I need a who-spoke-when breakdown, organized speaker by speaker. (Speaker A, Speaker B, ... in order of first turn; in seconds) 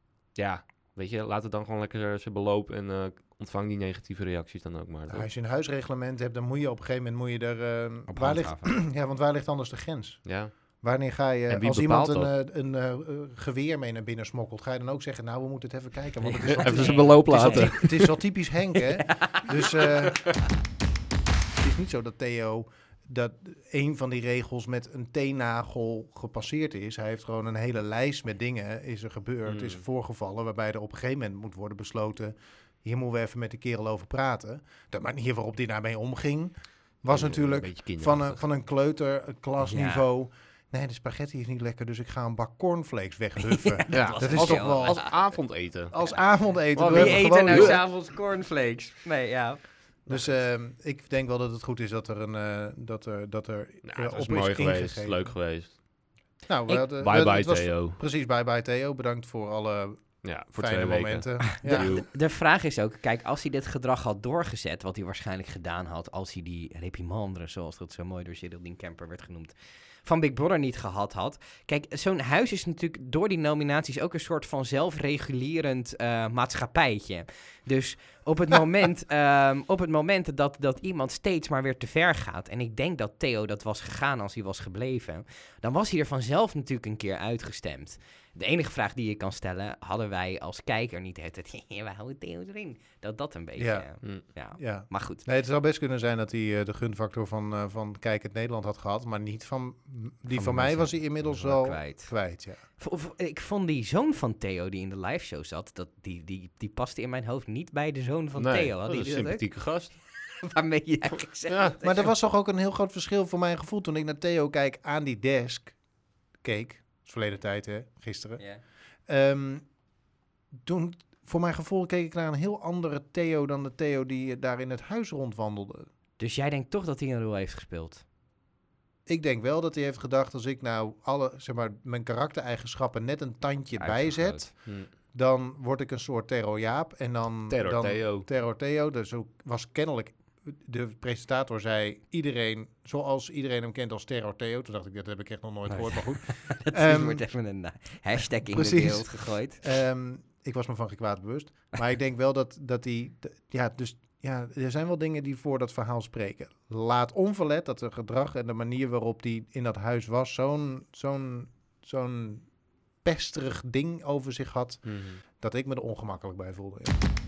Speaker A: 0.3-5.2, 10.2-10.5, 11.5-12.3, 16.5-18.1, 29.4-29.8, 37.1-38.4, 43.9-46.0, 46.7-47.8, 53.8-55.8, 56.9-58.0, 60.2-62.1, 108.4-110.0, 111.5-111.8, 137.5-138.3, 164.8-165.2
Speaker B: 5.1-10.2, 10.8-20.4, 21.6-45.4, 45.9-47.8, 50.1-55.3, 56.5-62.0, 93.6-93.9, 94.5-102.6, 111.8-115.8, 116.4-118.4, 119.1-119.6, 120.6-125.9, 129.1-147.2, 148.5-162.5, 163.0-167.0
Speaker C: 8.1-8.7, 16.2-18.0, 19.0-19.9, 39.6-40.0, 43.4-45.1, 46.8-49.6, 61.6-95.2, 100.3-102.1, 102.8-109.5, 110.4-112.1, 126.2-128.0, 133.8-134.5, 145.7-149.6